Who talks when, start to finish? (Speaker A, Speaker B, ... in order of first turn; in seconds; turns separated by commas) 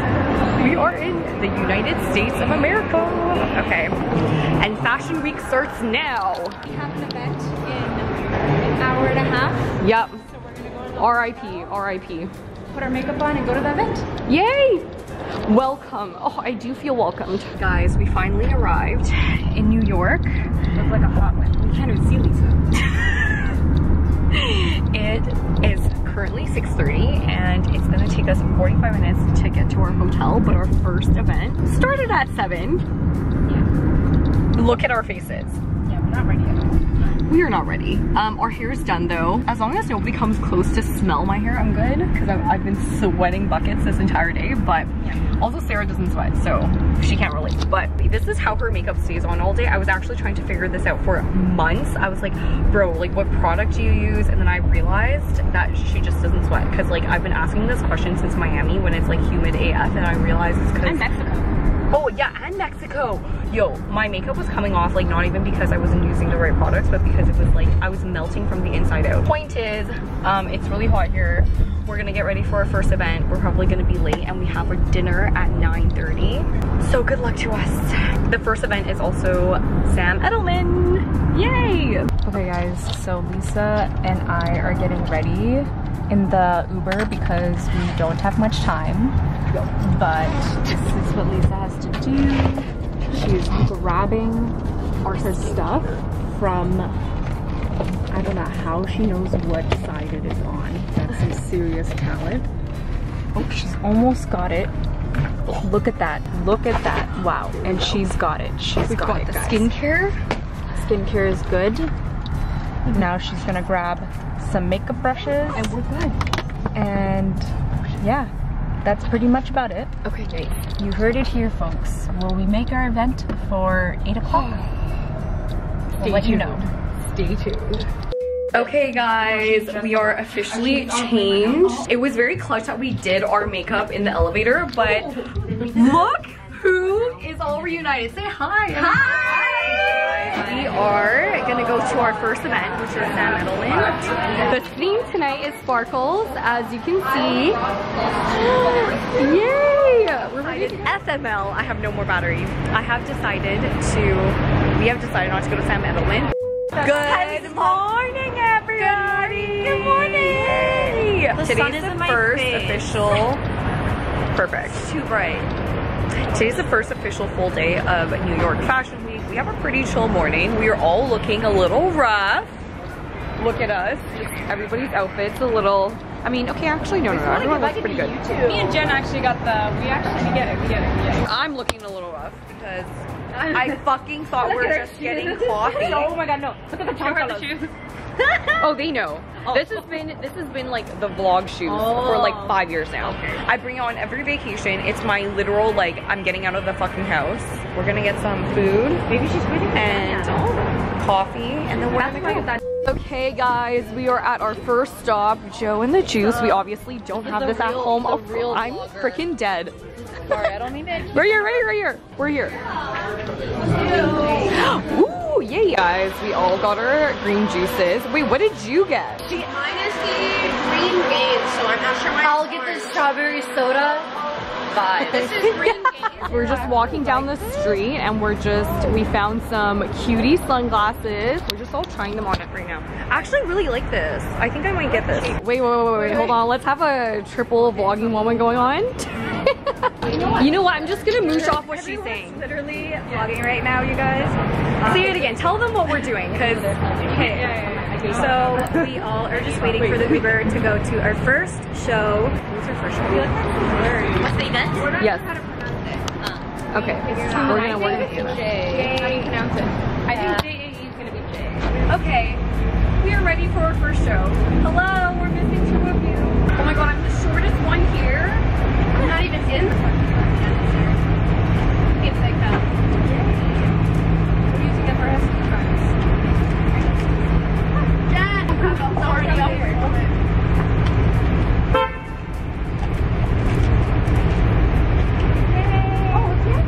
Speaker A: 0.5-6.6, Speaker B: 6.7-8.1, Speaker B: 8.7-9.5, Speaker A: 9.8-10.2, Speaker A: 11.0-12.3, Speaker B: 12.7-14.1, Speaker A: 14.3-14.9, Speaker A: 15.4-20.5, Speaker B: 20.8-21.5, Speaker A: 21.5-23.4, Speaker A: 24.3-32.8, Speaker A: 34.5-35.6, Speaker B: 35.9-36.7, Speaker A: 37.2-61.1, Speaker B: 60.8-61.5, Speaker A: 61.9-82.1, Speaker B: 82.1-89.2, Speaker B: 89.7-97.0, Speaker A: 95.0-96.0, Speaker B: 98.1-102.5, Speaker B: 103.4-104.7, Speaker B: 105.5-109.7, Speaker A: 108.9-110.2, Speaker B: 110.7-111.9, Speaker B: 112.9-115.8, Speaker A: 115.5-116.2, Speaker B: 116.8-118.3, Speaker B: 118.8-120.0, Speaker A: 120.0-120.5, Speaker B: 120.5-124.7, Speaker A: 124.3-124.6, Speaker B: 126.0-127.9, Speaker A: 126.0-126.7, Speaker A: 128.5-147.6, Speaker B: 128.6-131.8, Speaker A: 148.3-163.4, Speaker B: 161.4-162.9, Speaker A: 164.3-165.5, Speaker A: 166.3-172.6, Speaker A: 173.4-178.2, Speaker B: 177.1-181.2, Speaker C: 178.4-178.7, Speaker A: 181.2-186.2, Speaker B: 184.4-187.7, Speaker A: 187.0-187.5, Speaker C: 187.1-187.5, Speaker A: 188.6-199.1, Speaker C: 192.1-192.4, Speaker B: 199.1-200.3, Speaker A: 199.7-200.4, Speaker A: 201.0-209.8, Speaker B: 207.5-208.4, Speaker B: 210.3-211.3, Speaker C: 210.6-211.2, Speaker A: 211.1-212.6, Speaker C: 213.8-214.6, Speaker A: 214.4-219.3, Speaker C: 219.2-223.1, Speaker A: 222.2-224.1, Speaker C: 224.8-226.3, Speaker A: 224.8-253.5, Speaker B: 241.6-243.2, Speaker B: 247.0-250.3, Speaker C: 254.0-254.7, Speaker A: 254.9-255.3, Speaker C: 255.5-256.1, Speaker A: 256.7-260.4, Speaker C: 257.1-259.2, Speaker B: 257.1-261.6, Speaker C: 260.1-260.5, Speaker A: 261.7-262.4, Speaker A: 263.0-268.4, Speaker C: 268.9-271.0, Speaker C: 272.0-272.7, Speaker B: 274.5-275.9, Speaker C: 278.1-280.1, Speaker A: 285.8-286.3